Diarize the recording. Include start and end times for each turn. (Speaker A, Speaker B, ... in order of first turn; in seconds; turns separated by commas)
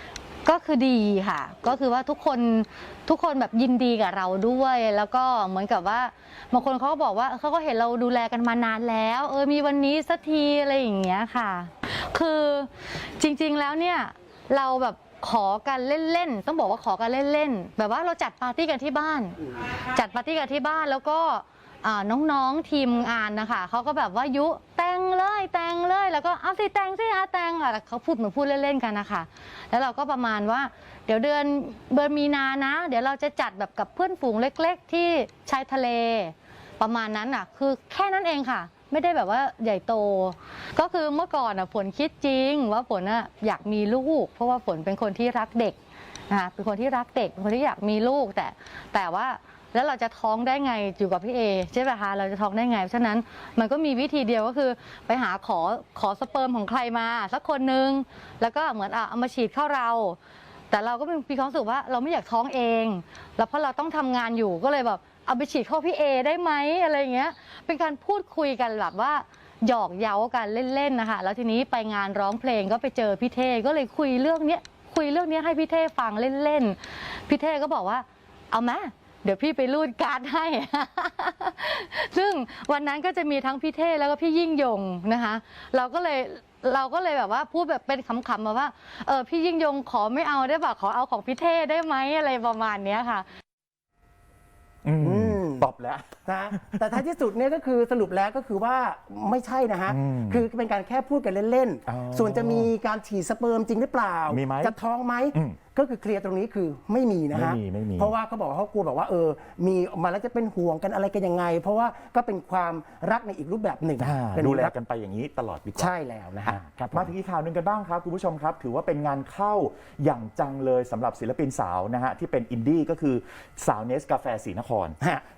Speaker A: 0.5-45.8, Speaker A: 46.3-60.2, Speaker A: 60.7-93.2, Speaker B: 94.8-97.0, Speaker C: 95.0-95.7, Speaker C: 96.3-114.7, Speaker B: 99.9-100.5, Speaker B: 101.9-102.7, Speaker B: 104.3-104.8, Speaker B: 105.3-105.6, Speaker B: 107.3-108.1, Speaker B: 114.0-115.9, Speaker C: 115.8-117.1, Speaker B: 116.5-125.0